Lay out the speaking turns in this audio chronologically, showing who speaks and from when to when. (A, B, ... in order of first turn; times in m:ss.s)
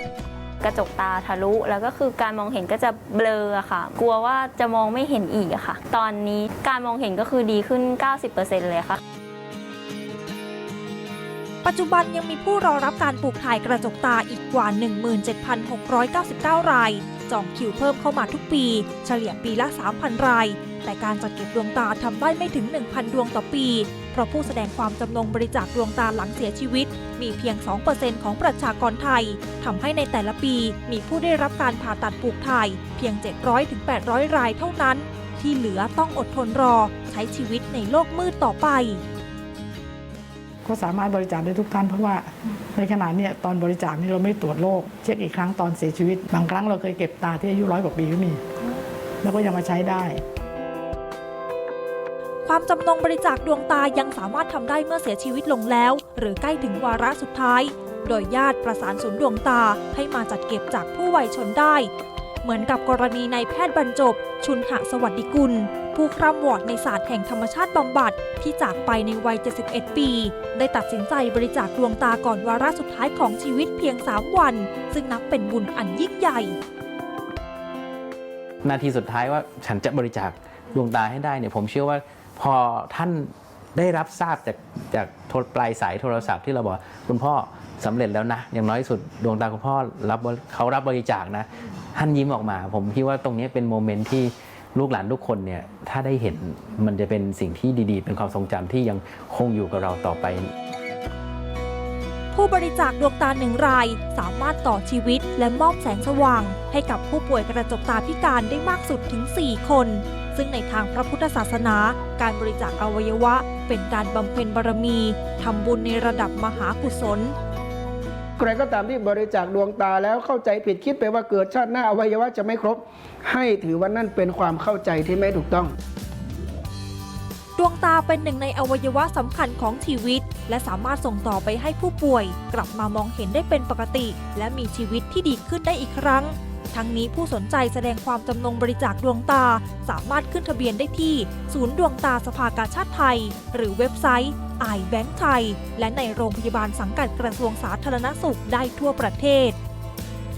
0:00.6-0:09.0 A
0:11.6-0:39.0 B
0:40.6-0:48.4 C
0:49.2-0:50.2 C
0:52.4-1:01.9 B
1:02.4-1:16.6 B
1:18.6-1:40.5 D
1:42.3-1:57.3 B
1:58.4-2:05.7 E
2:07.6-2:29.6 B